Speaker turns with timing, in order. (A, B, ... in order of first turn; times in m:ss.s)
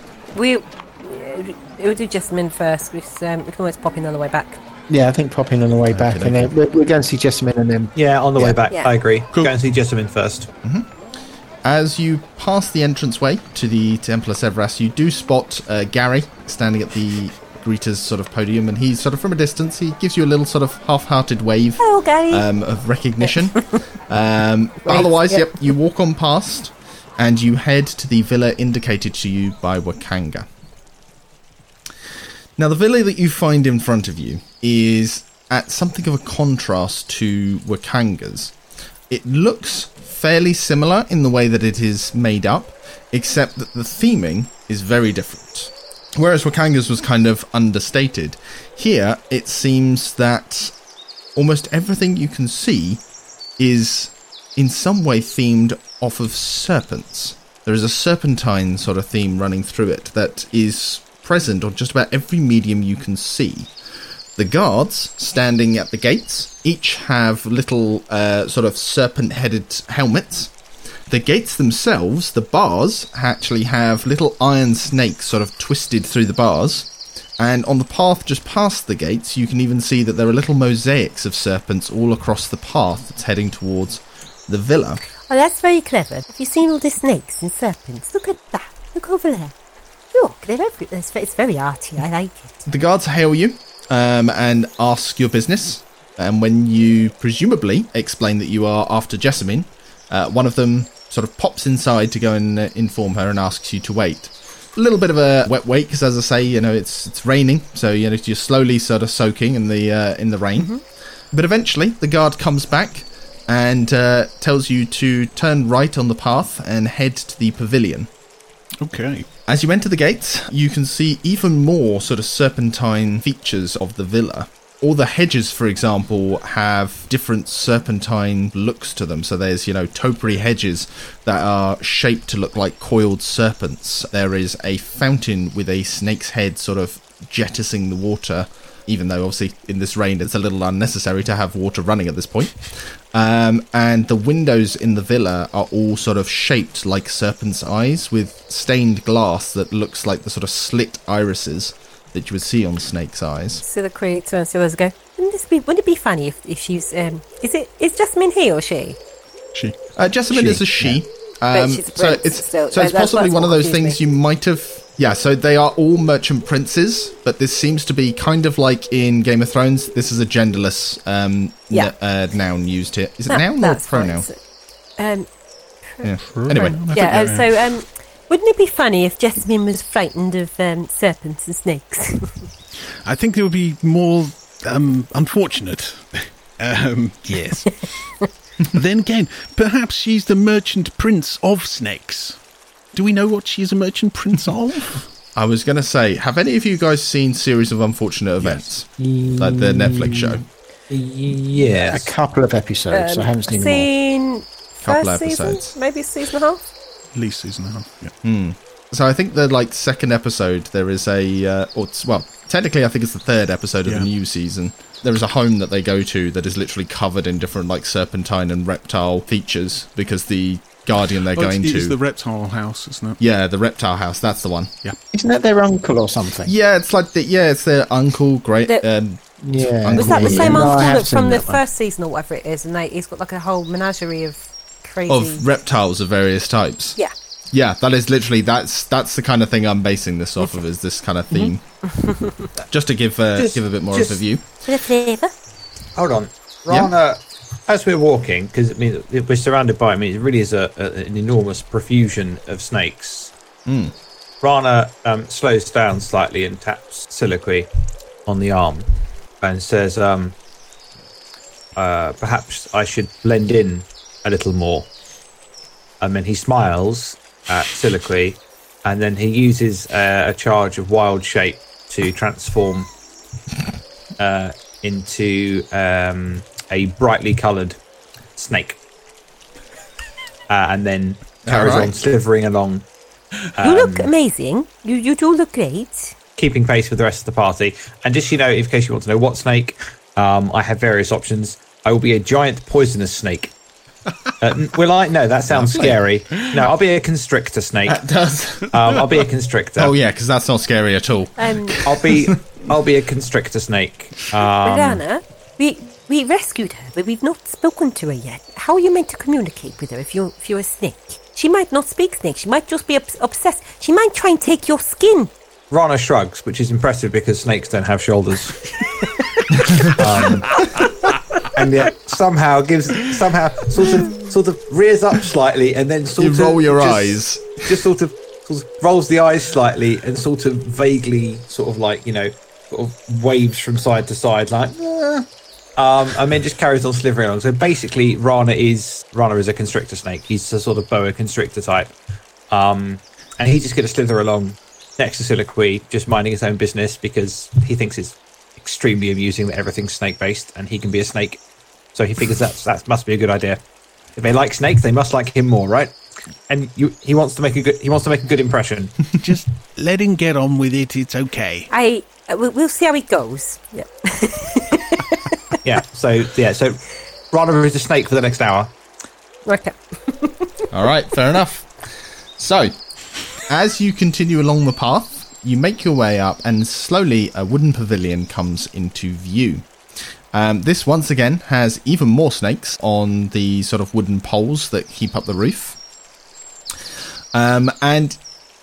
0:00.3-0:04.6 A
0:04.9-0:08.6 B
0:05.8-0:06.5 C
0:07.9-0:10.5 D
0:10.6-0:10.9 C
0:11.6-0:30.5 C
0:21.8-0:22.5 A
0:24.8-0:25.5 A
0:32.6-0:38.5 C
0:39.1-0:50.7 C
0:51.3-0:53.0 C
0:53.6-1:03.7 C
1:04.4-1:10.5 C
1:11.1-1:25.0 C
1:25.3-1:29.5 A
1:30.1-1:32.6 A
1:32.6-1:50.7 C
1:51.3-1:58.1 C
1:58.8-1:59.3 E
1:59.5-2:33.6 C
2:33.6-2:39.0 A
2:40.0-2:54.2 C
2:40.3-2:41.0 B
2:41.5-2:44.0 A
2:53.3-2:54.3 A
2:55.0-2:55.3 A
2:55.8-3:02.4 A
2:56.0-2:56.9 C
2:56.2-2:57.6 E
3:03.0-3:08.2 E
3:08.7-3:12.4 E
3:12.9-3:15.1 E
3:15.3-3:20.4 C
3:19.0-3:20.4 B
3:21.0-3:22.1 D
3:21.2-3:23.9 B
3:22.9-3:26.7 A
3:24.8-3:25.7 C
3:27.1-3:28.1 E
3:28.2-3:42.0 C
3:41.3-3:43.2 E
3:43.2-3:44.7 C
3:45.1-3:46.5 B
3:46.4-3:51.0 C
3:49.4-3:51.6 B
3:50.0-3:55.4 A
3:55.1-3:57.0 C
3:57.5-4:01.6 C
4:02.7-4:04.4 C
4:03.3-4:04.2 D
4:04.6-4:05.3 A
4:06.0-4:13.3 D
4:13.6-4:13.9 C
4:14.4-4:17.7 D
4:18.2-4:18.9 D
4:19.4-4:20.3 D
4:21.8-4:24.9 D
4:26.0-4:32.9 D
4:34.2-4:37.8 D
4:38.4-4:38.8 D
4:40.5-4:42.8 D
4:41.4-4:42.0 C
4:43.4-4:44.1 D
4:43.6-4:46.1 A
4:46.4-4:53.5 D
4:54.4-4:58.0 D
4:55.5-4:56.0 C
4:57.8-4:58.7 C
4:58.7-4:59.9 D
4:59.8-5:02.6 C
5:01.4-5:01.8 A
5:01.8-5:05.0 D
5:04.6-5:15.3 A
5:15.7-5:18.7 D
5:19.8-5:20.6 D
5:21.4-5:34.8 D
5:26.2-5:27.8 C
5:34.8-5:35.2 C
5:35.8-5:41.9 D
5:42.5-5:51.4 D
5:51.9-5:53.6 D
5:54.2-5:55.9 D
5:56.5-5:59.1 D
5:59.2-6:01.7 E
6:01.7-6:05.6 A
6:05.6-6:06.8 D
6:07.3-6:08.7 D
6:09.4-6:10.5 A
6:10.7-6:12.7 C
6:13.4-6:19.7 C
6:20.3-6:25.8 C
6:27.3-6:28.2 C